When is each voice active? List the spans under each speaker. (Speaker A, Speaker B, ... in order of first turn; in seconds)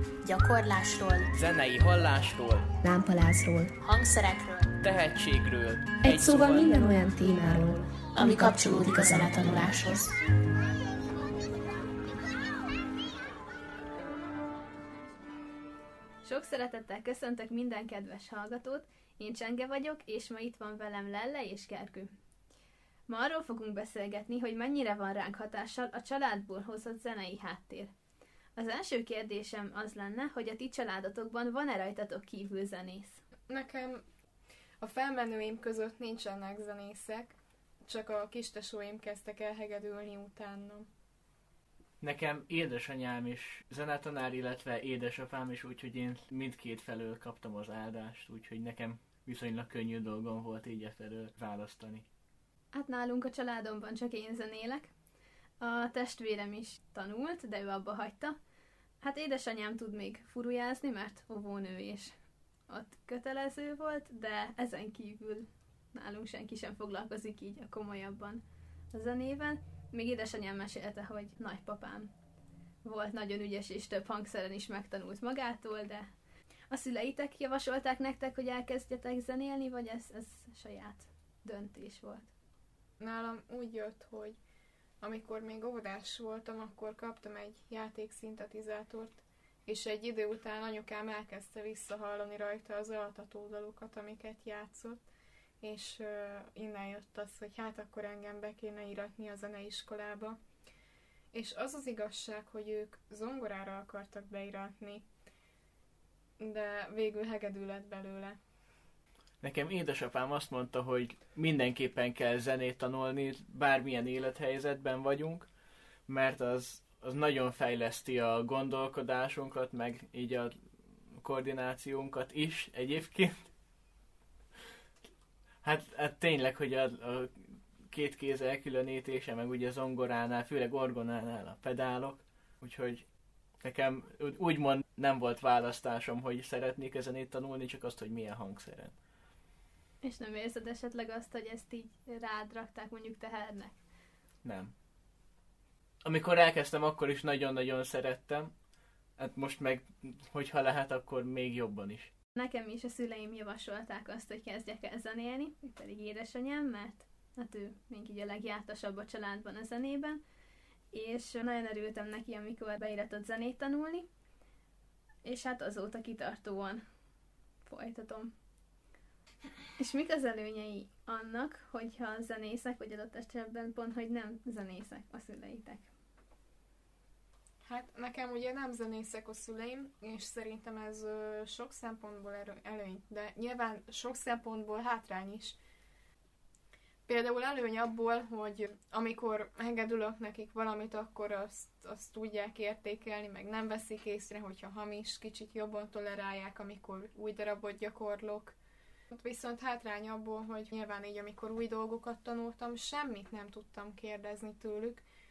Speaker A: 0.2-1.3, 3.8-4.7, 8.1-10.0
Speaker B: 1.3-2.7, 4.8-6.9, 42.0-52.0, 109.4-115.5, 116.1-120.5, 121.1-123.5, 125.6-133.0, 133.6-138.9, 144.4-144.7, 146.0-148.5, 149.2-152.1
Speaker C: 2.8-3.7, 6.0-10.1
Speaker D: 16.2-22.1, 23.1-27.9, 28.6-33.2, 52.7-54.9, 55.6-58.4, 59.0-62.1, 62.7-68.4, 68.9-72.1, 72.8-76.1, 76.7-82.3, 140.0-143.8, 152.3-160.2, 160.9-164.1, 165.2-166.8, 167.6-168.3, 169.8-175.9
Speaker E: 33.5-34.0, 34.8-40.9, 83.0-84.4, 85.0-95.0, 95.6-100.4, 101.3-105.0, 106.4-108.4, 177.6-185.6, 187.1-198.6, 199.1-205.0